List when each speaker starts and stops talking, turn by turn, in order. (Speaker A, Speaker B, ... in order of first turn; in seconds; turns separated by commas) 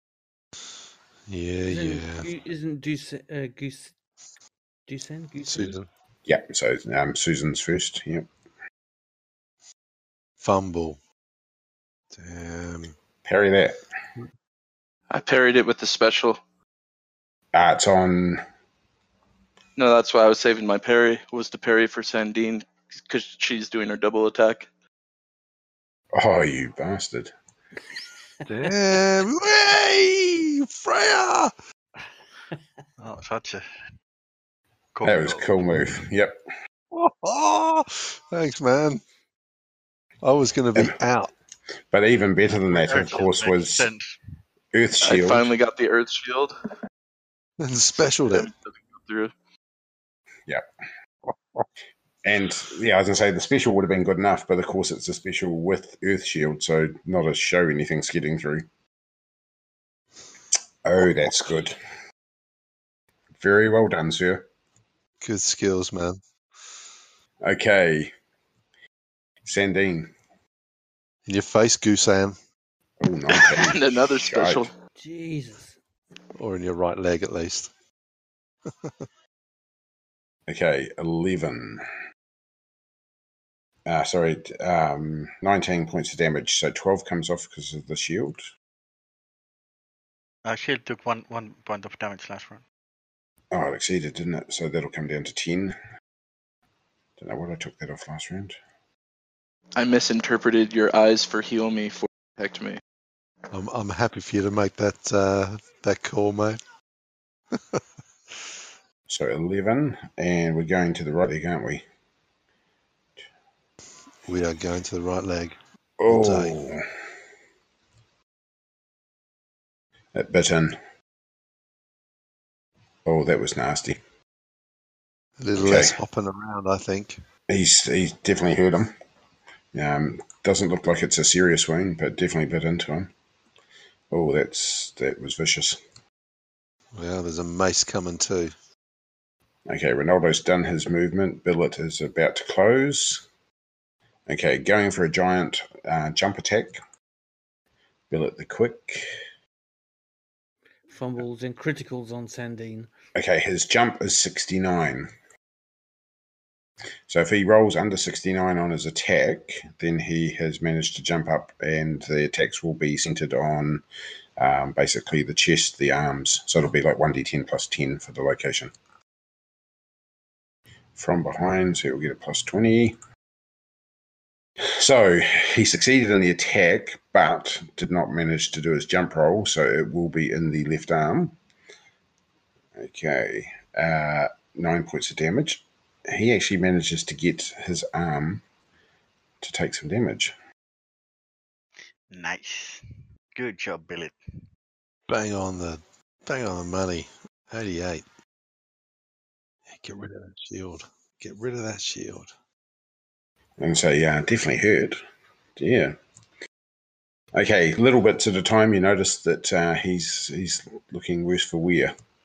Speaker A: 1.3-2.3, Speaker B: 1.6-3.9, Speaker B: 4.9-5.8, Speaker A: 5.4-5.9, Speaker C: 6.2-8.3, Speaker A: 10.4-11.0, Speaker A: 12.1-12.9, Speaker C: 13.2-13.8, Speaker D: 15.1-16.4, Speaker C: 17.5-18.4, Speaker D: 19.8-24.7, Speaker C: 26.1-27.3, Speaker A: 28.4-31.5, Speaker E: 33.0-33.6, Speaker E: 34.9-35.9, Speaker C: 35.0-36.4, Speaker A: 36.9-39.0, Speaker A: 40.2-41.3, Speaker C: 41.9-43.9, Speaker E: 42.5-44.2, Speaker C: 44.7-45.5, Speaker D: 45.0-46.5, Speaker A: 47.6-48.5, Speaker D: 48.0-49.3, Speaker C: 52.2-58.6, Speaker C: 60.8-61.8, Speaker C: 63.4-64.4, Speaker A: 65.2-66.2, Speaker C: 67.4-68.1, Speaker C: 69.5-70.1, Speaker A: 71.3-72.3, Speaker C: 73.0-74.7, Speaker D: 73.3-74.7, Speaker B: 75.0-75.8, Speaker A: 76.3-77.7, Speaker C: 80.5-81.8, Speaker C: 83.8-88.5, Speaker E: 90.5-92.6, Speaker C: 93.5-95.7, Speaker C: 97.2-98.5, Speaker D: 99.8-102.8, Speaker A: 103.5-106.6, Speaker A: 107.5-108.6, Speaker C: 109.1-111.8, Speaker A: 114.2-115.5, Speaker C: 116.0-116.8, Speaker A: 116.1-116.6, Speaker C: 120.1-120.8, Speaker C: 123.0-124.0, Speaker A: 125.4-127.2, Speaker C: 125.6-126.0, Speaker C: 127.5-128.9, Speaker C: 129.7-133.1, Speaker C: 134.1-135.8, Speaker A: 136.9-138.5, Speaker C: 139.7-143.2, Speaker C: 144.3-146.8, Speaker C: 148.1-149.1, Speaker B: 150.9-152.9, Speaker C: 153.1-155.1, Speaker C: 157.1-163.8, Speaker C: 164.4-168.7, Speaker C: 171.0-173.0, Speaker C: 174.7-181.3, Speaker C: 182.8-188.4, Speaker C: 189.4-190.3, Speaker E: 192.1-194.2, Speaker A: 195.1-198.0, Speaker A: 199.7-202.3, Speaker C: 203.6-205.0, Speaker C: 205.6-205.9, Speaker C: 207.3-211.9